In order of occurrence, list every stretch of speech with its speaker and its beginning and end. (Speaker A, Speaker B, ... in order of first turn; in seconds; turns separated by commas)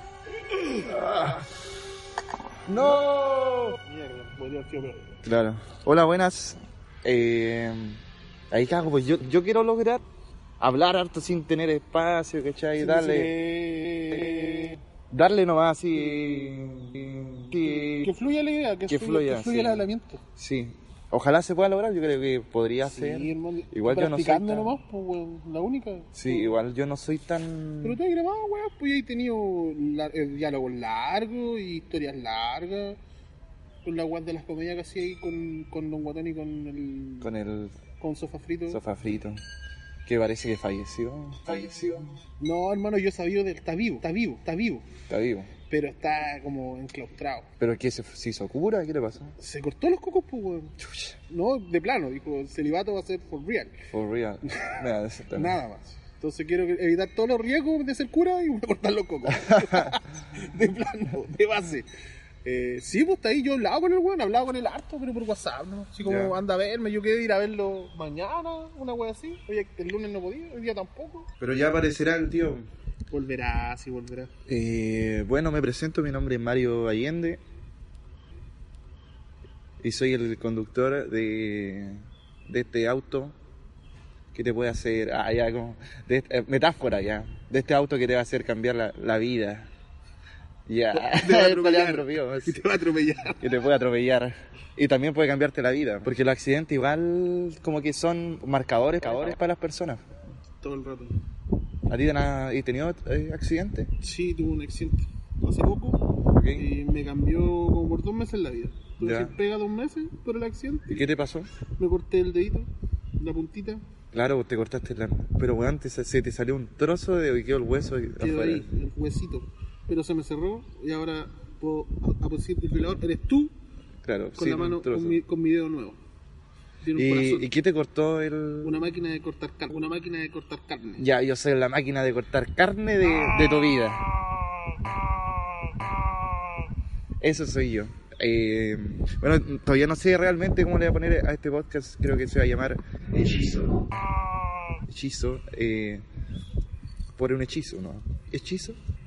Speaker A: 0.6-1.5, Speaker A: 2.7-3.8, Speaker B: 3.8-5.1, Speaker A: 5.2-10.0, Speaker A: 10.6-13.3, Speaker B: 12.8-14.8, Speaker A: 15.1-18.1, Speaker B: 18.0-20.2, Speaker A: 18.9-24.8, Speaker B: 22.8-26.5, Speaker A: 26.1-28.0, Speaker B: 27.8-33.0, Speaker B: 33.8-37.3, Speaker A: 37.2-37.8, Speaker B: 38.0-38.8, Speaker A: 38.7-39.4, Speaker A: 40.0-42.2, Speaker B: 42.4-44.8, Speaker A: 45.1-45.5, Speaker B: 45.7-47.5, Speaker A: 47.6-49.4, Speaker B: 49.4-50.8, Speaker A: 50.8-51.2, Speaker B: 51.3-53.7, Speaker A: 53.9-55.6, Speaker B: 54.5-54.8, Speaker B: 55.3-61.9, Speaker A: 59.4-59.9, Speaker B: 62.4-71.3, Speaker A: 66.0-66.4, Speaker A: 71.4-72.7, Speaker B: 73.1-74.3, Speaker A: 74.5-77.4, Speaker A: 79.8-83.3, Speaker A: 84.3-89.7, Speaker A: 90.7-92.7, Speaker B: 90.9-93.4, Speaker A: 93.4-100.0, Speaker B: 100.6-101.2, Speaker A: 101.9-103.9, Speaker B: 104.0-106.0, Speaker A: 106.3-106.7, Speaker B: 106.5-111.0, Speaker A: 109.0-109.4, Speaker A: 110.9-111.5, Speaker B: 111.8-112.7, Speaker B: 113.2-113.8, Speaker A: 114.1-118.7, Speaker B: 118.2-123.5, Speaker A: 124.0-125.2, Speaker B: 124.4-126.0, Speaker B: 126.8-127.5, Speaker A: 126.9-128.8, Speaker B: 128.6-131.1, Speaker A: 131.0-134.1, Speaker A: 137.2-144.0, Speaker A: 144.8-146.1, Speaker A: 147.2-148.8